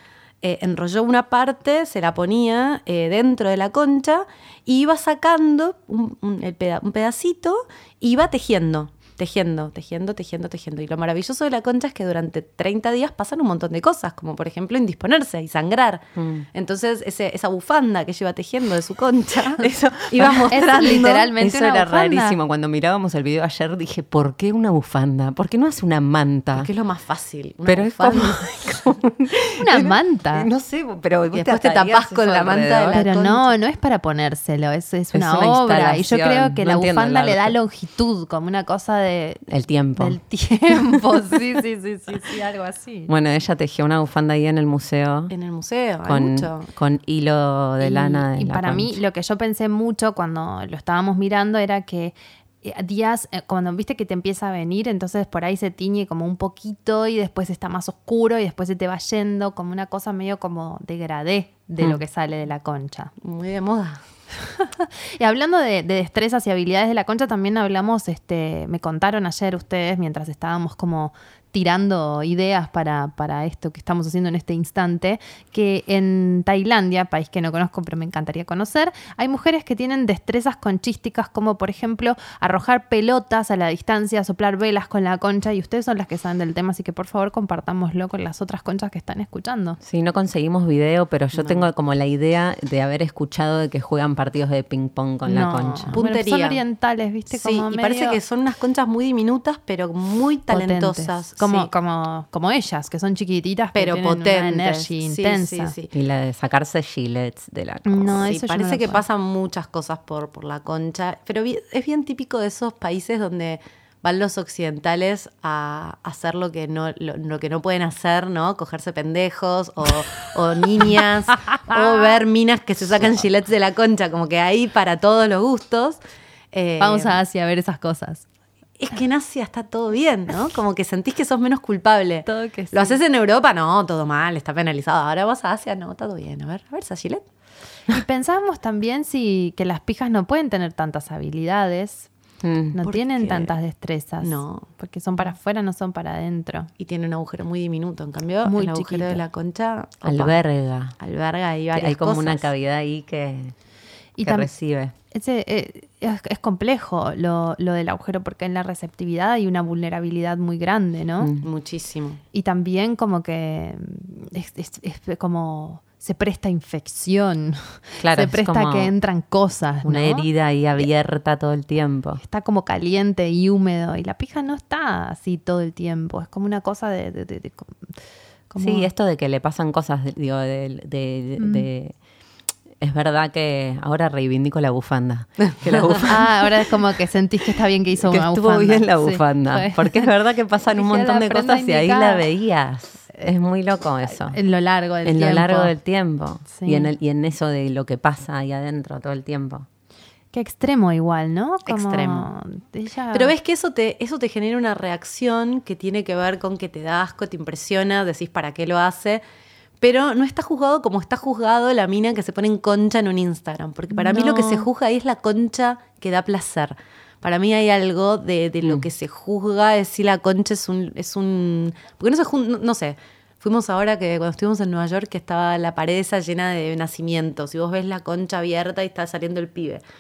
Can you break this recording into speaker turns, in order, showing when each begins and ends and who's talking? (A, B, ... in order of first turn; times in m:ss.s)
0:00.4-0:21.3 A
0:16.2-0:16.5 B
0:19.6-0:26.7 B
0:20.5-0:22.4 C
0:26.6-0:28.5 A
0:27.7-0:33.0 B
0:29.6-0:30.5 C
0:31.3-0:33.5 A
0:32.9-0:39.4 C
0:35.1-0:37.6 B
0:39.5-0:40.2 B
0:40.0-0:43.1 C
0:43.1-0:45.3 B
0:45.3-0:46.7 A
0:46.1-0:49.0 B
0:47.8-1:03.1 C
1:03.2-1:04.0 A
1:04.5-1:29.8 C
1:29.8-1:35.9 B
1:31.3-1:31.6 A
1:35.3-1:38.2 C
1:35.9-1:36.6 A
1:37.3-1:41.7 A
1:40.5-1:45.7 C
1:43.7-1:45.9 A
1:45.9-1:48.2 B
1:47.9-1:49.0 C
1:48.2-2:06.0 A
2:06.5-2:07.2 A
2:06.8-2:08.2 C
2:08.8-2:17.2 A
2:12.3-2:13.0 C
2:17.9-2:22.1 C
2:22.4-2:22.8 B
2:22.7-2:26.7 C
2:22.8-2:23.5 A
2:24.2-2:24.7 A
2:26.8-2:30.4 A
2:28.4-2:29.2 C
2:30.1-2:31.0 B
2:31.0-2:32.5 A
2:31.8-2:33.6 B
2:34.2-2:34.5 C
2:34.2-2:34.9 B
2:35.1-2:41.3 C
2:41.4-2:42.2 A
2:42.3-2:50.9 C
2:48.0-2:48.9 B
2:49.8-2:52.2 B
2:52.2-2:57.9 C
2:58.5-2:58.9 C
2:58.6-3:02.0 B
3:01.4-3:01.7 C
3:02.8-3:06.3 B
3:06.0-3:12.3 C
3:08.0-3:14.4 B
3:14.1-3:15.8 C
3:15.0-3:19.7 B
3:16.5-3:16.9 C
3:20.3-3:23.3 C
3:21.7-3:22.3 A
3:23.1-3:29.2 A
3:29.8-3:49.8 A
3:34.0-3:34.7 C